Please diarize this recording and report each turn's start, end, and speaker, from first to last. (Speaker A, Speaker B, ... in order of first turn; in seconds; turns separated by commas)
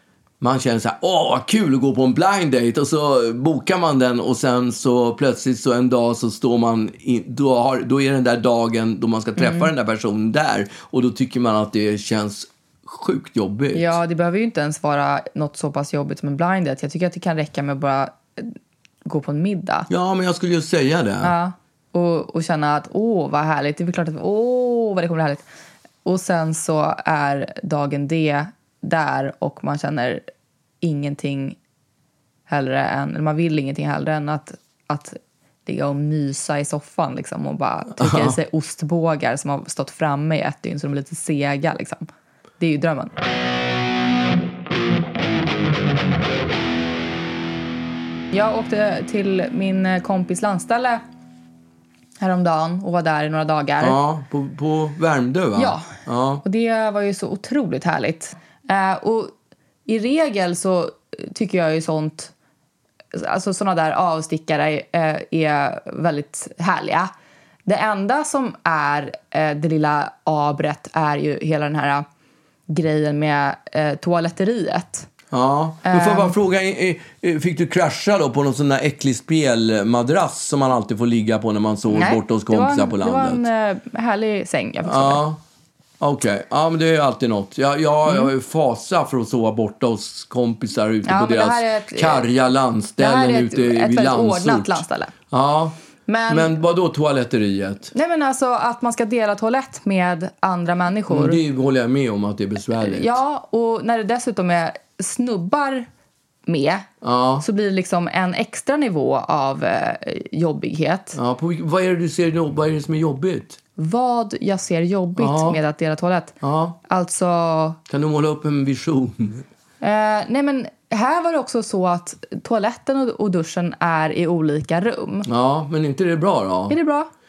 Speaker A: 0.4-13.9, Speaker B: 9.4-9.7, Speaker B: 13.7-19.9, Speaker A: 19.9-21.3, Speaker B: 21.2-25.5, Speaker B: 26.1-30.2, Speaker B: 30.8-31.6, Speaker B: 32.5-42.0, Speaker A: 38.0-38.4, Speaker B: 42.6-43.1, Speaker B: 48.3-51.0, Speaker B: 52.2-54.0, Speaker A: 53.8-56.4, Speaker B: 55.6-55.9, Speaker B: 56.4-59.3, Speaker B: 59.9-62.3, Speaker B: 63.1-67.1, Speaker B: 67.7-72.0, Speaker B: 72.7-75.1, Speaker A: 75.3-83.5, Speaker B: 75.8-76.3, Speaker B: 81.9-85.2, Speaker A: 84.9-85.4, Speaker A: 86.0-95.8, Speaker B: 91.0-92.3, Speaker B: 93.0-95.1, Speaker B: 96.1-96.5, Speaker A: 96.3-97.9, Speaker B: 97.9-101.4, Speaker A: 101.1-103.1, Speaker B: 102.8-105.9, Speaker B: 106.5-106.9, Speaker A: 107.0-107.4, Speaker B: 107.4-111.2, Speaker A: 111.1-113.6, Speaker B: 113.8-117.8, Speaker A: 115.2-115.6, Speaker A: 116.4-116.8, Speaker A: 117.9-119.4, Speaker B: 119.8-125.3, Speaker A: 125.2-126.8, Speaker B: 126.7-127.1